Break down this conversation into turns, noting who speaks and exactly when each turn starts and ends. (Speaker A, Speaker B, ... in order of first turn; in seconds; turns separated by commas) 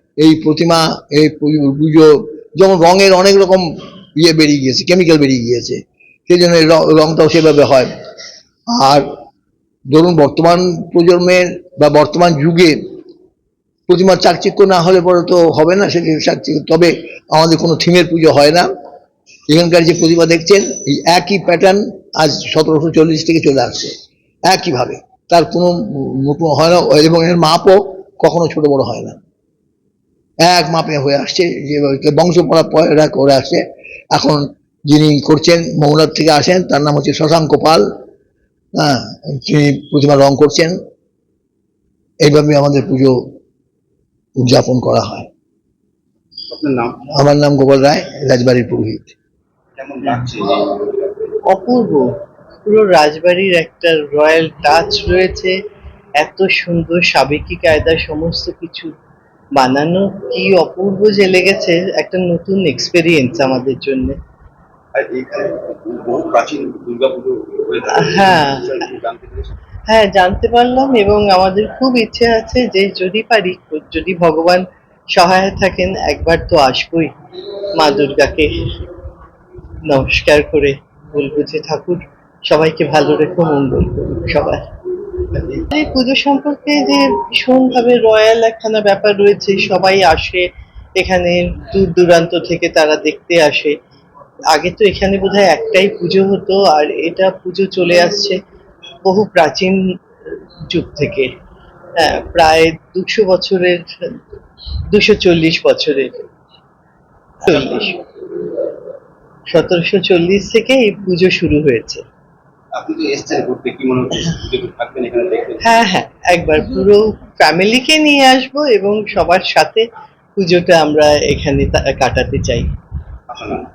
Speaker A: 0.2-7.9, Speaker A: 8.7-9.1, Speaker A: 9.9-12.8, Speaker A: 13.9-18.7, Speaker A: 19.5-23.9, Speaker A: 24.5-29.2, Speaker A: 30.4-37.8, Speaker A: 38.8-40.7, Speaker A: 42.2-43.1, Speaker A: 44.4-45.3, Speaker B: 46.5-47.0, Speaker A: 47.1-49.1, Speaker B: 49.8-50.6, Speaker C: 51.5-52.1, Speaker C: 52.6-55.5, Speaker C: 56.2-58.9, Speaker C: 59.5-64.2, Speaker B: 64.9-69.5, Speaker C: 68.0-68.8, Speaker C: 69.9-77.1, Speaker C: 77.7-78.5, Speaker C: 79.8-84.6, Speaker C: 85.5-90.5, Speaker C: 91.0-93.7, Speaker C: 94.5-98.3, Speaker C: 99.0-99.8, Speaker C: 100.7-101.3, Speaker C: 102.0-103.8, Speaker C: 104.9-106.2, Speaker C: 107.4-108.0, Speaker C: 109.5-112.0, Speaker B: 112.8-115.8, Speaker C: 115.6-119.8, Speaker C: 120.4-122.7, Speaker B: 123.3-123.7